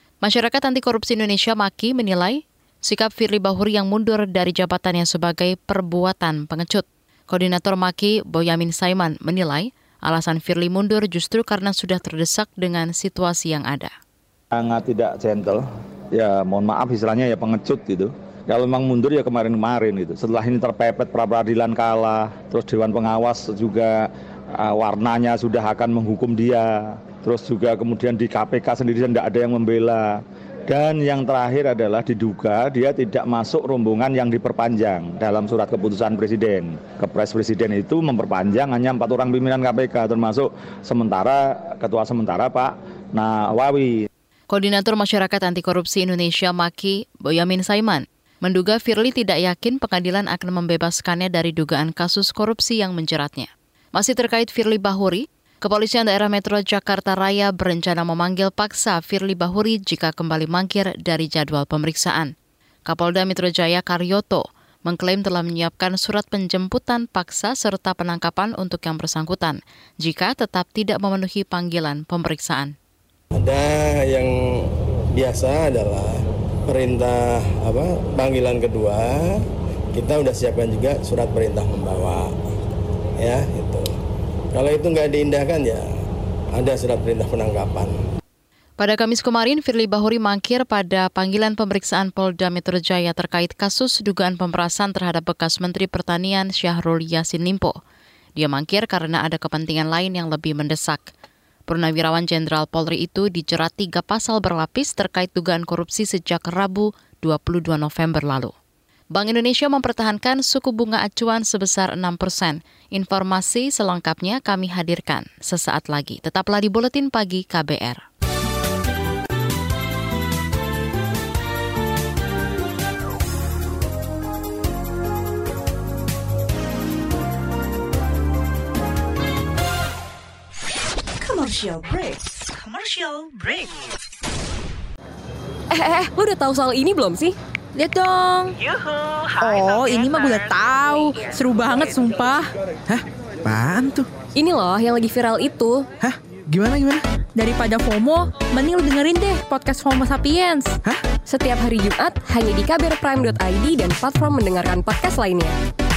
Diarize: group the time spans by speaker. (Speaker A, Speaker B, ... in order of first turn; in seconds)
Speaker A: 0.2-13.9, 44.5-62.3, 62.9-72.7, 88.8-97.8, 98.4-101.1, 101.7-108.5, 109.1-118.0
Speaker B: 14.6-15.6, 16.1-44.0
Speaker C: 73.4-79.4, 79.9-82.3, 83.2-83.9, 84.5-85.9, 86.5-87.9
Speaker D: 131.2-133.8
Speaker E: 135.7-137.4, 144.3-145.9, 151.2-155.6
Speaker F: 137.8-138.5, 139.4-142.5, 147.4-150.8
Speaker G: 142.9-144.1, 146.0-147.0